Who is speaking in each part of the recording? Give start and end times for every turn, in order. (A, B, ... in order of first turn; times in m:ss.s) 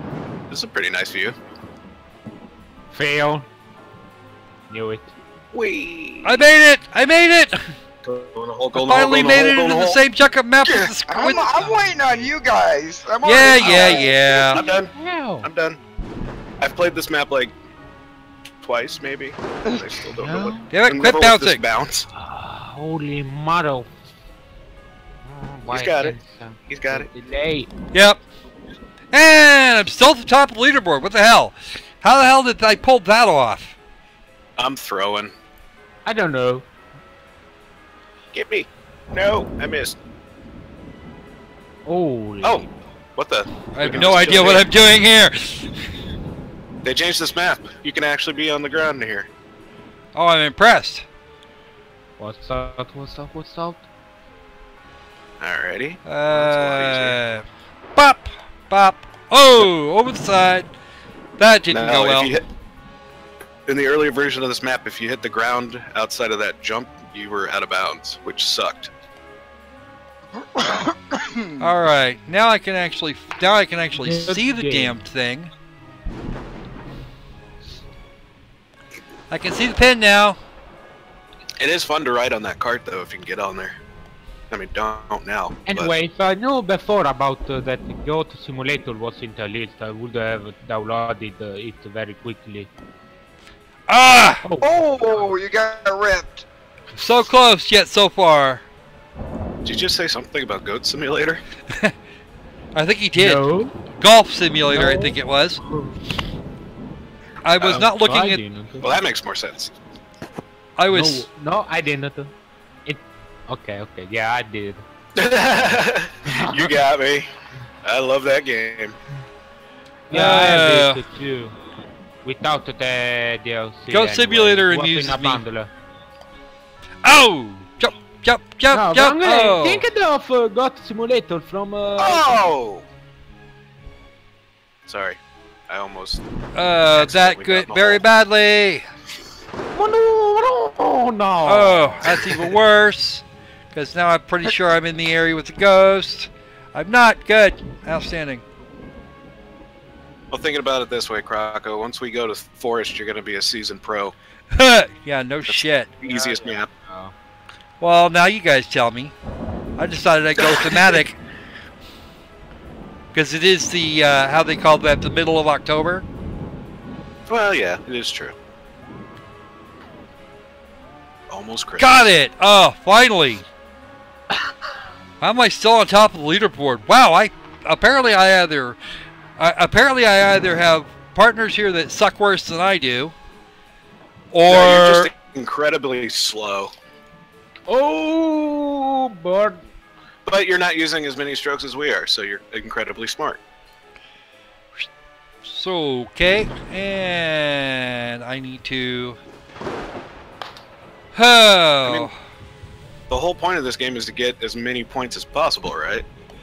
0:00.5-0:01.4 A
0:02.9-0:03.5 B
0:04.7-0:05.1 B
0:05.5-0:06.4 A
0:06.2-0:07.7 C
0:08.0-0:10.0 A
0:08.7-0:11.7 C
0:11.1-0:14.2 D
0:13.2-0:14.6 C
0:13.6-0:14.9 A
0:13.6-0:15.5 B
0:15.4-0:15.8 A
0:16.6-0:17.5 A
0:18.6-0:22.1 A
0:19.7-0:19.9 D
0:20.2-0:20.7 B
0:20.7-0:21.6 C
0:22.1-0:23.9 B
0:25.3-0:27.7 B
0:25.7-0:26.2 A
0:26.7-0:27.1 A
0:27.9-0:28.2 C
0:29.1-0:33.8 C
0:34.6-0:35.3 A
0:36.0-0:36.7 B
0:38.3-0:40.0 A
0:41.9-0:42.7 B
0:42.4-0:44.7 A
0:43.7-0:45.8 C
0:46.8-0:49.3 A
0:50.2-0:51.1 C
0:52.2-0:53.8 B
0:55.4-0:57.2 A
0:56.1-0:57.4 C
0:58.0-1:00.7 C
1:01.4-1:02.3 C
1:01.7-1:02.5 A
1:03.7-1:08.9 A
1:10.5-1:11.7 D
1:11.6-1:15.5 C
1:13.9-1:15.0 B
1:19.3-1:20.4 C
1:21.6-1:23.8 A
1:24.5-1:25.9 A
1:25.7-1:32.7 B
1:33.9-1:34.4 C
1:34.4-1:34.8 B
1:34.6-1:36.5 D
1:37.0-1:38.6 C
1:39.6-1:41.4 A
1:42.8-1:43.4 C
1:43.2-1:43.7 B
1:44.0-1:45.6 C
1:44.7-1:45.2 B
1:45.7-1:45.9 B
1:47.4-1:48.4 C
1:47.6-1:47.9 A
1:48.0-1:49.0 B
1:48.8-1:49.7 A
1:50.8-1:51.3 C
1:50.9-1:52.3 B
1:52.9-1:54.8 B
1:55.2-1:57.3 A
1:55.6-1:56.7 B
1:57.8-1:59.0 A
2:00.1-2:01.6 B
2:00.1-2:01.0 C
2:02.2-2:05.7 B
2:03.9-2:05.4 C
2:07.0-2:09.8 C
2:08.7-2:12.5 B
2:12.0-2:12.9 A
2:14.9-2:16.2 A
2:16.6-2:18.8 C
2:16.9-2:18.0 A
2:19.7-2:22.2 B
2:21.5-2:28.4 C
2:30.3-2:34.2 A
2:34.5-2:35.9 C
2:35.5-2:36.7 A
2:36.0-2:37.1 B
2:37.8-2:39.1 C
2:39.8-2:41.2 C
2:40.4-2:40.9 A
2:43.1-2:46.0 C
2:47.3-2:48.4 A
2:51.3-2:52.1 A
2:51.8-2:53.4 C
2:55.2-2:58.8 C
2:59.4-3:03.1 C
3:04.3-3:05.1 C
3:04.5-3:06.7 A
3:07.7-3:09.6 B
3:10.3-3:13.4 A
3:15.4-3:19.2 C
3:21.1-3:22.2 C
3:23.1-3:26.1 A